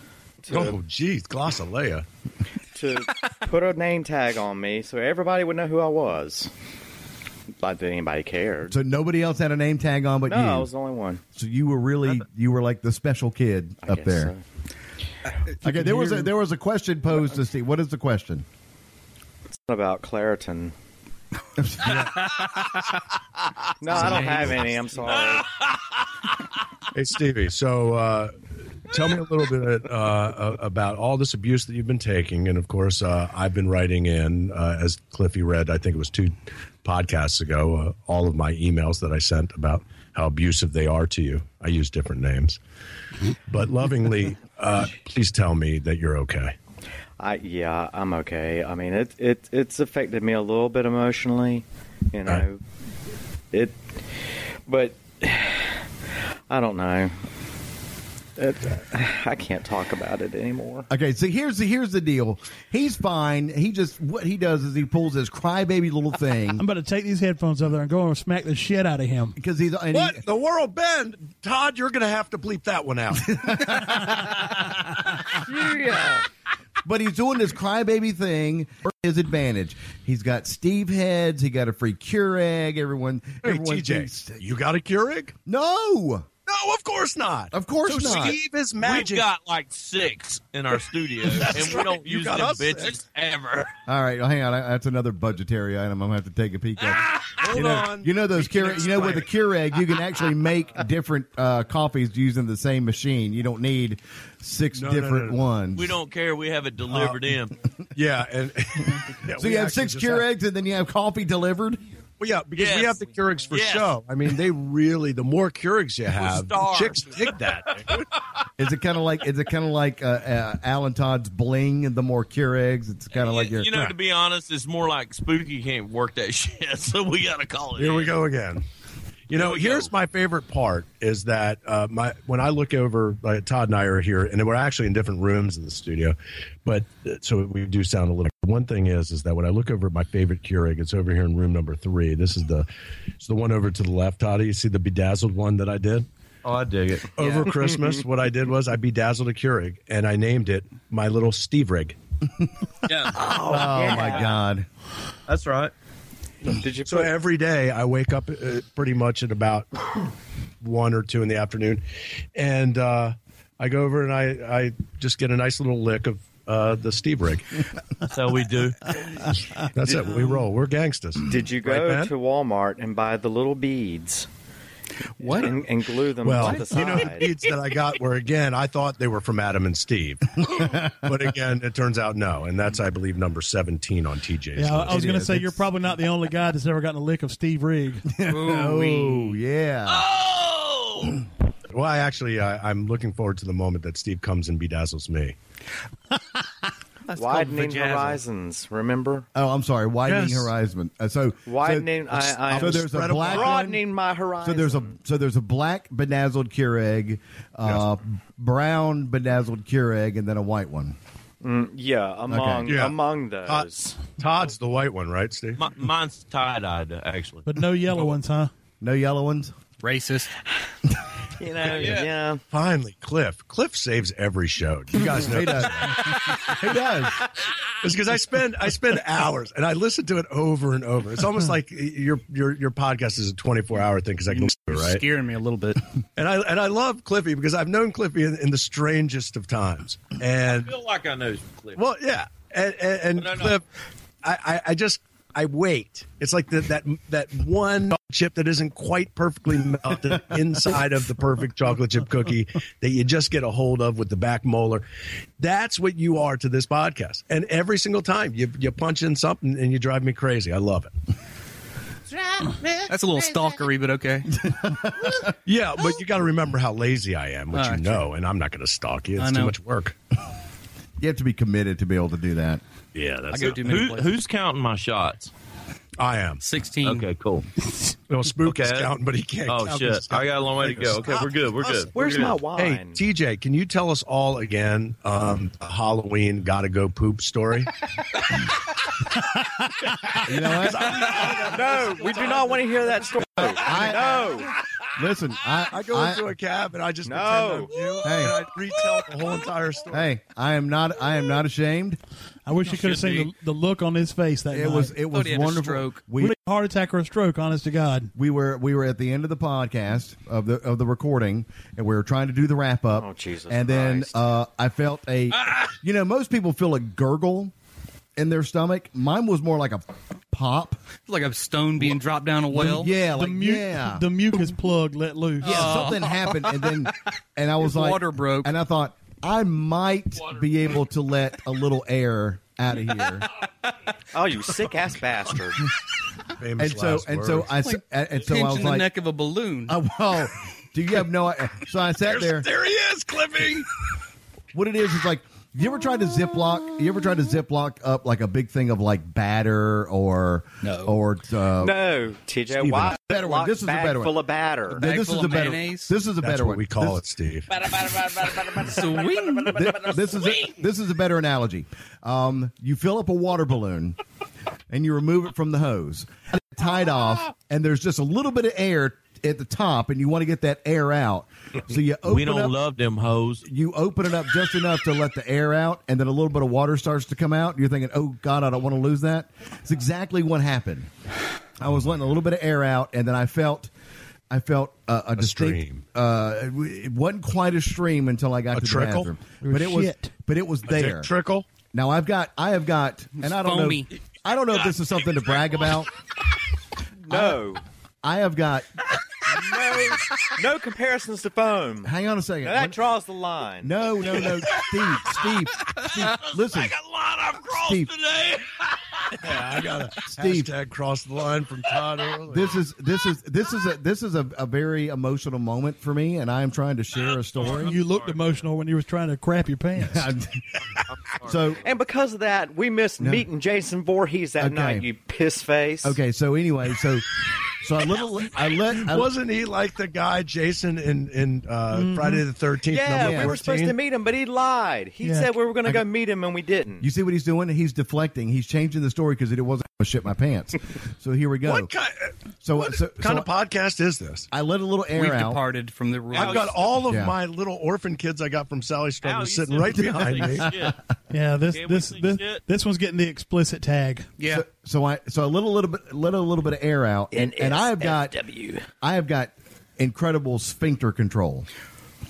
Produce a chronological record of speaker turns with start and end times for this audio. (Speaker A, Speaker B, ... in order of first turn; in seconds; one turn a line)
Speaker A: 0.4-0.8
Speaker B: 0.5-2.1
Speaker A: 2.8-6.5
Speaker A: 7.6-8.8
Speaker C: 8.7-10.7
Speaker A: 10.3-11.2
Speaker C: 11.3-14.3
Speaker A: 13.8-14.4
Speaker C: 15.6-18.4
Speaker A: 19.6-20.7
Speaker C: 21.6-22.1
Speaker D: 21.9-22.7
Speaker A: 23.8-25.5
Speaker D: 23.9-24.5
Speaker E: 23.9-24.6
Speaker B: 24.0-24.4
Speaker D: 25.1-26.1
Speaker B: 26.9-28.3
Speaker B: 28.9-42.6
Speaker B: 43.5-46.5
Speaker A: 47.2-52.6
Speaker A: 53.5-53.8
Speaker A: 54.7-55.8
Speaker A: 56.5-57.1
Speaker A: 58.4-60.9
Speaker C: 60.9-66.7
Speaker F: 66.6-69.3
Speaker C: 69.4-70.2
Speaker B: 69.9-73.7
Speaker C: 73.3-74.9
Speaker A: 75.3-76.2
Speaker C: 76.8-84.5
Speaker B: 83.4-85.3
Speaker C: 85.5-86.3
Speaker B: 86.5-89.3
Speaker C: 87.5-88.4
Speaker D: 88.8-93.8
Speaker B: 91.2-93.0
Speaker C: 93.9-106.0
Speaker B: 97.3-99.3
Speaker B: 104.8-105.4
Speaker D: 105.8-107.6
Speaker B: 106.9-107.2
Speaker B: 108.0-110.3
Speaker C: 109.3-111.8
Speaker B: 112.2-118.1
Speaker D: 112.6-114.0
Speaker D: 116.1-118.0
Speaker C: 118.6-123.9
Speaker D: 123.1-128.2
Speaker B: 127.8-128.7
Speaker B: 129.3-142.7
Speaker D: 129.3-129.9
Speaker B: 143.2-146.1
Speaker D: 146.4-147.5
Speaker B: 147.2-152.0
Speaker D: 152.8-153.2
Speaker A: 153.2-154.4
Speaker C: 153.2-154.7
Speaker B: 153.2-153.8
Speaker D: 155.3-155.7
Speaker A: 156.5-157.1
Speaker B: 156.9-159.7
Speaker B: 160.6-167.7
Speaker D: 168.1-169.0
Speaker B: 169.6-172.1
Speaker A: 171.2-174.3
Speaker E: 175.2-175.6
Speaker A: 175.2-177.3
Speaker B: 176.2-185.1
Speaker E: 176.4-176.8
Speaker C: 180.5-181.1
Speaker F: 184.6-188.1
Speaker C: 184.9-185.7
Speaker C: 188.1-190.1
Speaker E: 188.2-189.4
Speaker D: 189.9-191.3
Speaker B: 191.7-195.4
Speaker E: 197.1-198.2
Speaker A: 197.1-199.3
Speaker C: 199.3-203.9
Speaker B: 200.1-200.5
Speaker A: 201.5-204.9
Speaker B: 202.3-203.7
Speaker C: 204.4-211.0
Speaker A: 211.4-214.0
Speaker C: 212.3-212.7
Speaker B: 212.7-215.7
Speaker D: 215.6-218.1
Speaker F: 217.5-218.5
Speaker C: 218.8-219.5
Speaker E: 219.8-220.3
Speaker A: 221.3-222.4
Speaker D: 221.6-222.1
Speaker B: 221.7-226.1
Speaker C: 225.0-227.2
Speaker B: 227.8-235.1
Speaker E: 234.3-235.8
Speaker B: 236.2-240.7
Speaker D: 240.5-241.8
Speaker B: 241.8-243.6
Speaker D: 243.2-243.6
Speaker B: 244.2-254.8
Speaker B: 255.4-260.9
Speaker E: 262.9-264.4
Speaker C: 264.3-265.3
Speaker B: 265.4-269.9
Speaker E: 267.5-268.1
Speaker E: 269.2-269.6
Speaker C: 271.0-272.6
Speaker B: 272.9-273.8
Speaker E: 273.3-274.1
Speaker D: 273.4-275.3
Speaker B: 276.0-276.4
Speaker E: 276.4-277.1
Speaker D: 276.8-277.5
Speaker B: 278.1-287.7
Speaker D: 278.4-278.9
Speaker D: 279.5-282.4
Speaker A: 281.9-283.0
Speaker B: 290.1-292.7
Speaker C: 290.2-291.1
Speaker A: 291.4-294.5
Speaker C: 293.4-294.3
Speaker C: 294.9-296.3
Speaker B: 295.7-300.1
Speaker A: 297.1-297.8
Speaker C: 298.0-298.5
Speaker C: 299.9-302.0
Speaker F: 302.5-304.9
Speaker B: 302.9-303.2
Speaker C: 304.5-306.4
Speaker E: 305.1-306.1
Speaker F: 306.2-308.1
Speaker C: 308.1-317.5
Speaker A: 312.9-314.2
Speaker C: 318.2-320.8
Speaker E: 321.1-322.9
Speaker C: 322.5-324.1
Speaker F: 323.1-325.8
Speaker E: 325.4-326.9
Speaker C: 325.4-333.3
Speaker E: 327.6-328.5
Speaker A: 334.1-335.7
Speaker B: 336.4-337.5
Speaker C: 336.6-338.9
Speaker E: 337.6-339.8
Speaker C: 339.7-342.5
Speaker B: 342.0-343.7
Speaker C: 344.5-351.8
Speaker E: 350.6-351.0
Speaker A: 351.6-354.9
Speaker B: 352.6-352.9
Speaker C: 352.9-357.0
Speaker E: 354.8-355.9
Speaker B: 356.2-357.5
Speaker D: 357.6-358.9
Speaker E: 358.5-359.7
Speaker C: 359.5-364.0
Speaker D: 359.6-360.4
Speaker C: 364.7-372.6
Speaker D: 372.1-373.5
Speaker C: 373.4-380.9
Speaker C: 381.6-383.7
Speaker C: 384.3-391.1
Speaker B: 385.2-385.8
Speaker B: 388.5-389.1
Speaker F: 389.4-390.1
Speaker B: 390.6-391.5
Speaker C: 391.7-395.9
Speaker E: 393.2-393.9
Speaker D: 394.6-395.8
Speaker A: 397.0-397.6
Speaker C: 397.1-397.4
Speaker C: 398.0-398.7
Speaker A: 399.3-401.9
Speaker C: 401.8-402.8
Speaker A: 402.4-403.8
Speaker C: 403.6-406.8
Speaker D: 404.2-409.3
Speaker C: 407.5-407.9
Speaker B: 409.2-412.6
Speaker C: 410.1-410.5
Speaker C: 412.3-417.8
Speaker D: 417.0-418.5
Speaker F: 417.5-420.1
Speaker C: 419.8-420.4
Speaker D: 420.9-421.6
Speaker C: 421.2-421.6
Speaker A: 421.6-426.0
Speaker C: 423.0-423.3
Speaker C: 424.4-424.9
Speaker C: 425.8-429.1
Speaker B: 428.8-433.8
Speaker F: 431.8-432.2
Speaker A: 432.7-436.9
Speaker C: 432.9-433.4
Speaker F: 435.0-435.3
Speaker C: 436.8-441.7
Speaker B: 441.4-444.3
Speaker C: 442.4-443.3
Speaker C: 444.3-445.4
Speaker E: 444.9-446.6
Speaker D: 446.1-446.7
Speaker B: 446.1-450.5
Speaker C: 446.9-447.2
Speaker D: 449.0-450.8
Speaker C: 449.9-450.8
Speaker F: 451.1-454.1
Speaker D: 451.5-452.4
Speaker E: 454.2-454.4
Speaker C: 454.3-458.2
Speaker A: 457.1-458.7
Speaker C: 458.8-461.5